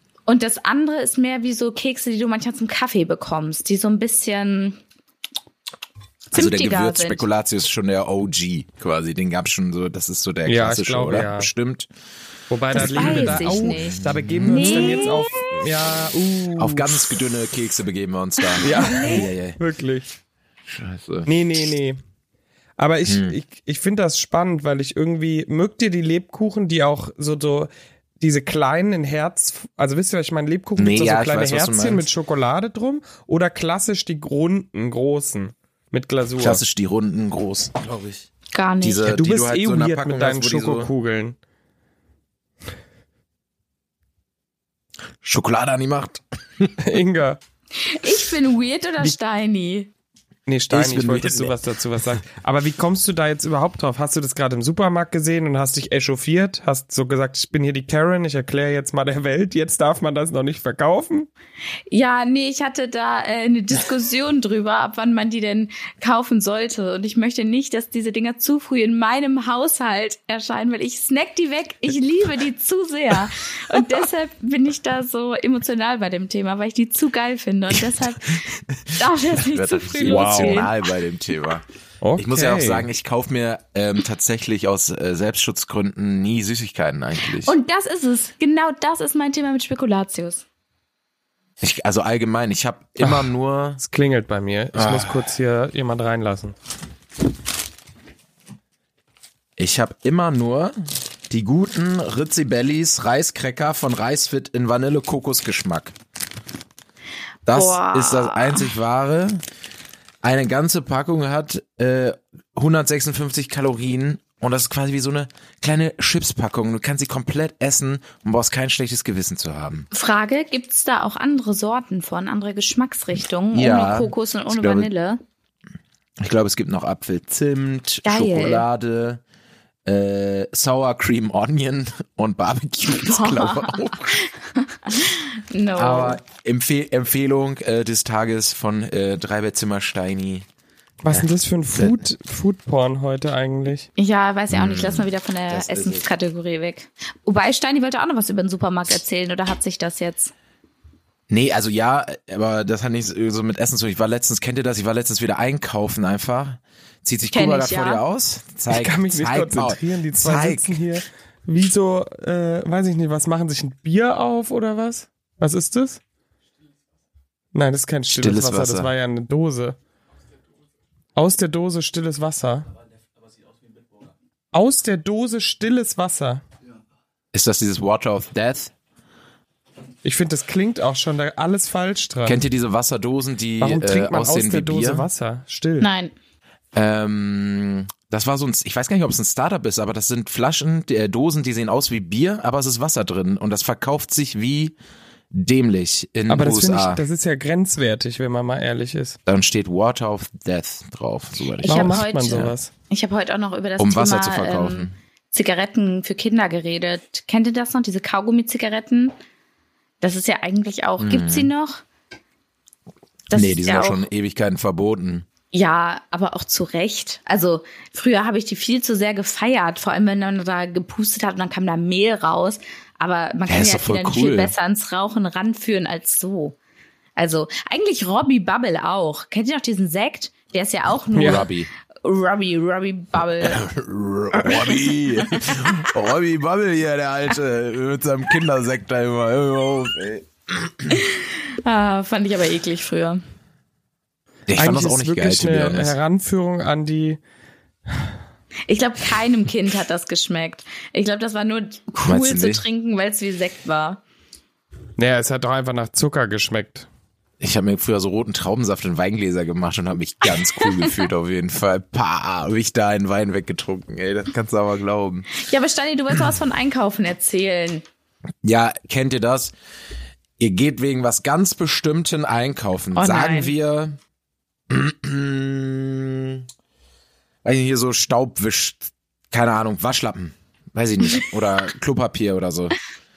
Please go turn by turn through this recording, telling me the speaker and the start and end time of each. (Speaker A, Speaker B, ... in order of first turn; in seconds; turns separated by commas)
Speaker A: 0.3-4.8, Speaker A: 6.3-7.2, Speaker B: 6.3-11.9, Speaker C: 10.5-11.5, Speaker C: 12.5-17.1, Speaker A: 12.7-15.3, Speaker B: 12.8-15.2, Speaker B: 16.6-19.6, Speaker A: 18.6-19.3, Speaker C: 18.6-20.1, Speaker B: 20.7-21.3, Speaker C: 21.3-22.0, Speaker C: 22.8-36.6, Speaker B: 23.1-23.4, Speaker B: 30.8-32.1, Speaker B: 36.4-38.3, Speaker A: 38.5-39.1, Speaker B: 38.8-40.9, Speaker C: 39.0-41.4, Speaker B: 45.2-46.8, Speaker C: 46.8-47.4, Speaker A: 47.8-49.9, Speaker C: 50.5-61.3, Speaker B: 50.7-51.6, Speaker A: 61.9-78.3, Speaker B: 77.7-81.6, Speaker A: 79.0-80.7, Speaker C: 80.0-80.7, Speaker C: 82.0-82.9, Speaker B: 82.2-87.5, Speaker A: 87.4-90.5, Speaker B: 91.6-93.8, Speaker C: 93.0-96.5, Speaker B: 94.7-95.3, Speaker B: 99.6-100.7, Speaker B: 101.3-105.9, Speaker B: 107.5-109.4, Speaker A: 107.5-108.7, Speaker B: 110.2-119.9, Speaker A: 119.9-125.2, Speaker B: 123.5-124.9, Speaker B: 126.2-129.2, Speaker A: 128.1-128.7, Speaker B: 129.9-134.2, Speaker A: 133.0-136.2, Speaker B: 135.8-140.5, Speaker C: 141.0-143.9, Speaker B: 141.1-142.0, Speaker A: 144.0-150.3, Speaker B: 144.5-146.1, Speaker B: 151.3-160.9, Speaker A: 157.3-158.0, Speaker C: 158.7-166.0, Speaker C: 167.5-169.8, Speaker B: 168.1-168.9, Speaker C: 171.2-172.7, Speaker C: 174.5-176.4, Speaker B: 177.3-178.7, Speaker C: 180.0-182.4, Speaker B: 182.2-185.1, Speaker C: 183.6-185.9, Speaker A: 185.8-186.1, Speaker B: 186.7-194.8, Speaker B: 195.3-197.0, Speaker C: 196.3-199.2, Speaker B: 199.3-202.5, Speaker A: 201.6-209.1, Speaker C: 201.7-202.7, Speaker B: 203.8-204.9, Speaker A: 210.0-211.8, Speaker B: 211.0-211.5, Speaker A: 213.3-214.1, Speaker B: 213.3-215.3, Speaker A: 215.5-226.6, Speaker B: 223.5-224.5, Speaker A: 227.2-231.5, Speaker C: 231.2-231.5, Speaker B: 231.2-231.7, Speaker A: 232.0-233.6, Speaker B: 233.4-241.0, Speaker A: 234.3-235.7, Speaker A: 240.9-243.2, Speaker B: 244.5-245.9, Speaker C: 244.6-247.2, Speaker A: 248.7-254.0, Speaker B: 252.0-252.6, Speaker C: 255.0-256.9, Speaker B: 257.4-265.4, Speaker A: 260.6-260.9, Speaker A: 265.4-267.9, Speaker B: 268.4-269.5, Speaker B: 270.4-274.0, Speaker A: 272.9-273.5, Speaker B: 274.7-276.4, Speaker B: 277.4-282.8